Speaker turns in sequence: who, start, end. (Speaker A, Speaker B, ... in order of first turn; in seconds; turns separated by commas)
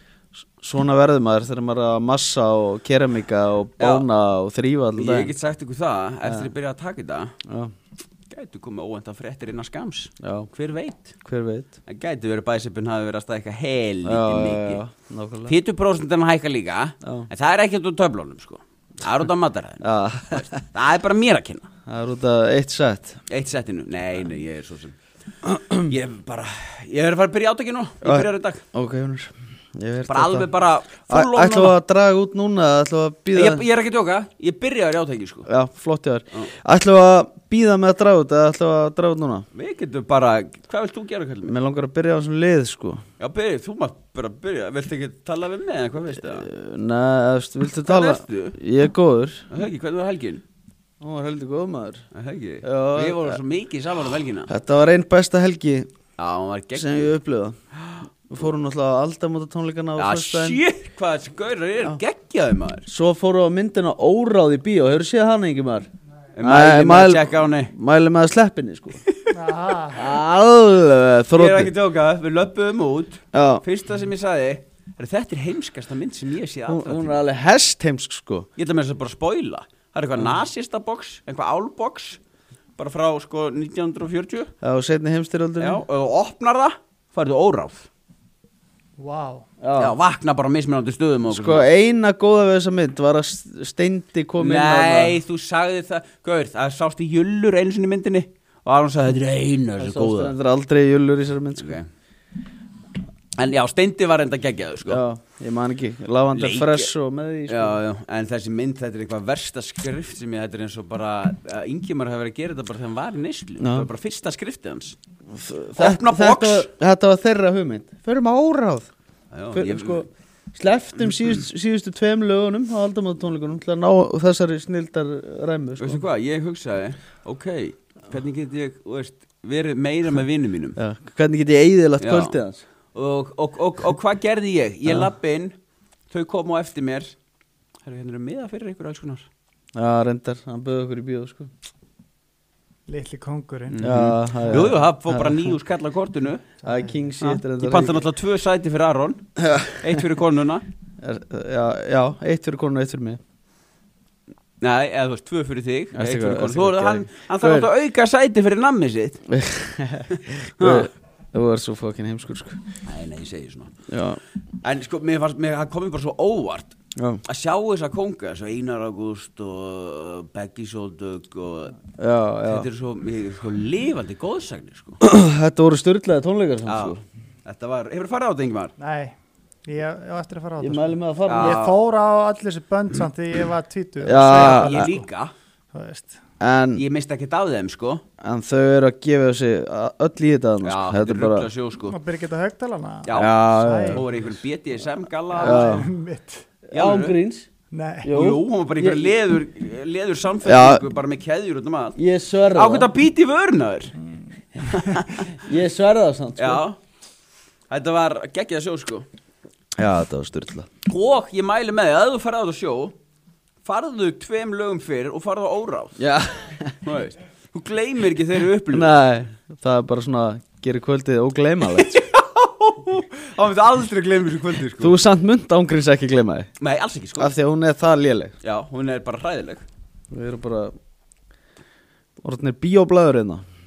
Speaker A: 0.6-5.3, Speaker B: 3.8-4.0, Speaker B: 4.9-7.3, Speaker A: 6.2-6.5, Speaker A: 7.5-7.7, Speaker B: 8.3-11.2, Speaker A: 10.2-10.5, Speaker A: 11.2-11.7, Speaker B: 11.9-14.8, Speaker A: 14.0-15.6, Speaker B: 15.5-21.7, Speaker A: 17.0-17.3, Speaker A: 19.8-20.6, Speaker A: 21.9-23.2, Speaker B: 23.3-24.9, Speaker A: 25.4-25.9, Speaker B: 25.9-28.6, Speaker A: 28.0-30.5, Speaker B: 30.1-31.8, Speaker A: 31.1-33.6, Speaker B: 33.3-35.5, Speaker A: 35.5-39.4, Speaker B: 39.5-41.5, Speaker A: 41.5-43.0, Speaker B: 43.2-46.5, Speaker A: 46.1-49.4, Speaker B: 47.9-48.6, Speaker B: 49.5-50.4, Speaker A: 51.0-52.0, Speaker B: 52.1-54.5, Speaker A: 52.6-53.4, Speaker A: 54.5-55.9, Speaker B: 56.2-57.1, Speaker A: 56.7-57.5, Speaker A: 58.3-60.6, Speaker B: 60.0-62.9, Speaker A: 62.9-65.9, Speaker B: 66.3-67.7, Speaker A: 66.4-69.0, Speaker C: 69.3-70.1, Speaker A: 70.0-71.7, Speaker B: 71.3-77.2, Speaker A: 73.3-73.6, Speaker A: 76.7-78.5, Speaker B: 78.6-82.2, Speaker B: 82.8-84.5, Speaker A: 84.6-85.8, Speaker B: 85.6-87.9, Speaker C: 89.0-89.5, Speaker A: 89.6-90.0, Speaker B: 89.8-91.7, Speaker A: 91.3-95.2, Speaker B: 94.4-100.3, Speaker A: 99.8-101.8, Speaker B: 101.6-101.9, Speaker B: 103.4-105.0, Speaker A: 104.8-107.8, Speaker B: 106.3-106.9, Speaker B: 107.5-115.0, Speaker A: 113.6-113.9, Speaker A: 115.3-118.9, Speaker B: 115.8-116.7, Speaker B: 119.3-120.0, Speaker A: 119.5-126.0, Speaker B: 125.8-130.8, Speaker A: 130.8-132.6, Speaker B: 132.0-132.3, Speaker B: 132.9-135.5, Speaker A: 134.8-135.1, Speaker B: 136.1-137.1, Speaker B: 137.8-139.2, Speaker A: 139.7-141.5, Speaker C: 142.9-143.8, Speaker B: 143.7-146.5, Speaker A: 143.8-145.5, Speaker C: 146.6-147.1, Speaker A: 146.6-148.1, Speaker B: 147.2-149.2, Speaker A: 149.4-150.0, Speaker B: 149.8-150.6, Speaker A: 151.0-153.2, Speaker B: 154.6-159.2, Speaker A: 155.9-157.7, Speaker A: 159.3-162.6, Speaker B: 160.1-160.9, Speaker B: 162.8-163.7, Speaker A: 163.9-164.2, Speaker B: 164.6-171.8, Speaker A: 172.0-172.7, Speaker B: 172.5-175.0, Speaker A: 175.0-177.0, Speaker B: 176.7-176.9, Speaker B: 177.4-178.7, Speaker C: 178.8-185.0, Speaker A: 180.6-181.6, Speaker B: 181.2-181.8, Speaker A: 184.0-184.9, Speaker B: 184.3-185.3, Speaker C: 185.7-186.2, Speaker A: 186.4-186.8, Speaker B: 186.8-188.0, Speaker A: 188.2-191.5, Speaker B: 190.6-191.9, Speaker C: 191.8-194.3, Speaker B: 193.0-195.8, Speaker A: 193.1-194.0, Speaker C: 195.3-196.5, Speaker A: 195.4-195.9, Speaker A: 196.7-197.5, Speaker B: 196.7-197.1, Speaker C: 197.7-198.1, Speaker A: 198.0-199.1, Speaker B: 198.1-202.0, Speaker A: 200.4-200.8, Speaker A: 202.0-202.9, Speaker B: 202.5-203.9, Speaker C: 204.1-205.2, Speaker B: 204.7-205.0, Speaker A: 205.3-206.6, Speaker B: 206.4-206.8, Speaker B: 207.7-209.1, Speaker A: 209.8-210.7, Speaker B: 210.9-212.9, Speaker B: 213.6-216.0, Speaker A: 216.0-216.8, Speaker B: 216.8-218.9, Speaker A: 218.7-222.0, Speaker B: 221.8-224.9, Speaker A: 224.8-226.5, Speaker B: 226.6-227.3, Speaker A: 227.2-228.3, Speaker B: 228.4-229.6, Speaker A: 230.1-230.7, Speaker A: 232.2-233.4